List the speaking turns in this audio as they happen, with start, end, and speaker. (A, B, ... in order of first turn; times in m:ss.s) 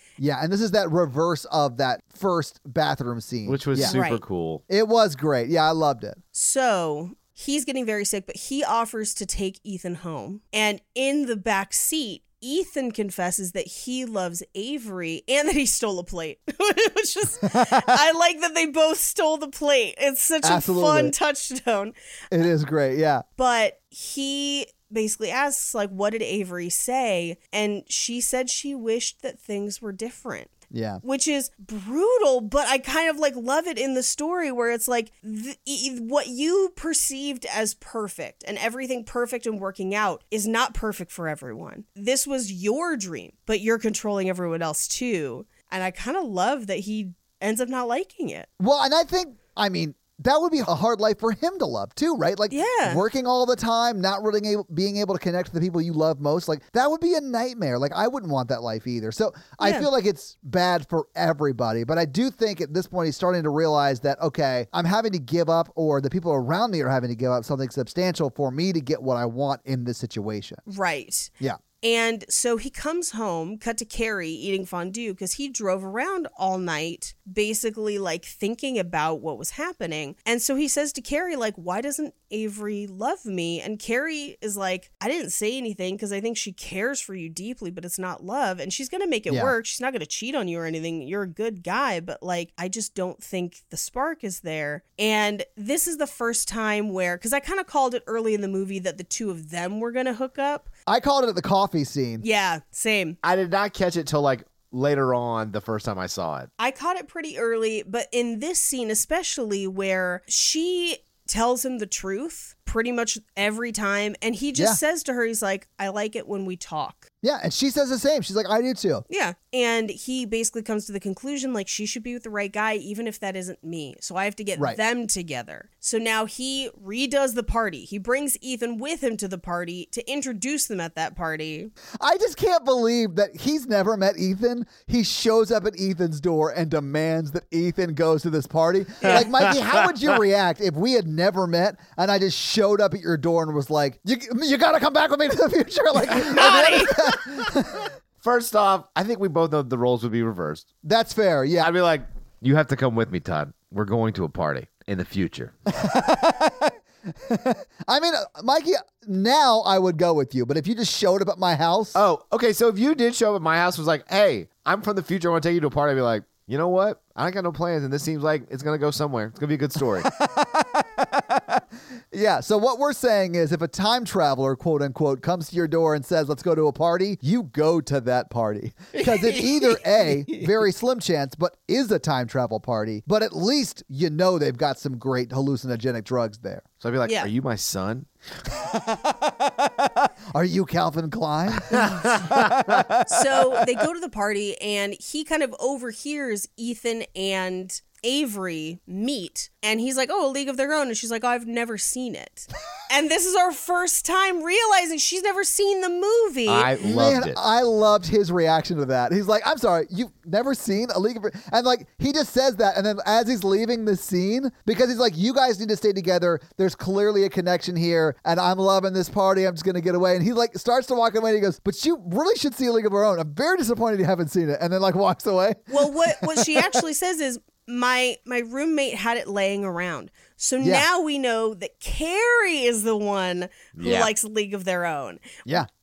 0:00.2-0:03.9 A
0:03.4-0:04.6 B
0:03.8-0:04.2 C
0:04.7-0:06.2 A
0:06.3-0:21.9 C
0:17.4-0:18.0 A
0:20.4-0:21.1 A
0:22.3-0:23.2 A
0:23.4-0:30.5 C
0:30.7-0:31.0 A
0:31.0-0:48.5 C
0:48.6-1:10.6 A
0:52.5-0:53.0 C
0:59.6-0:59.9 C
1:10.6-1:40.7 C
1:29.3-1:29.5 A
1:40.9-1:42.2 A
1:42.2-1:43.2 C
1:43.2-1:46.5 B
1:46.6-1:57.1 C
1:57.2-1:59.0 A
1:59.1-2:11.7 C
2:12.0-2:27.9 A
2:19.0-2:19.8 B
2:26.3-2:27.2 C
2:28.2-2:30.6 B
2:30.8-2:31.7 A
2:31.6-2:35.5 B
2:35.8-2:42.0 A
2:41.9-2:50.1 B
2:50.0-3:06.6 A
2:59.0-3:00.5 B
3:06.8-3:08.1 B
3:08.5-3:13.6 A
3:11.7-3:12.8 B
3:13.0-3:26.7 C
3:26.5-3:27.4 B
3:26.8-3:46.8 A
3:45.7-3:55.2 C
3:50.6-3:50.9 A
3:53.8-3:54.1 B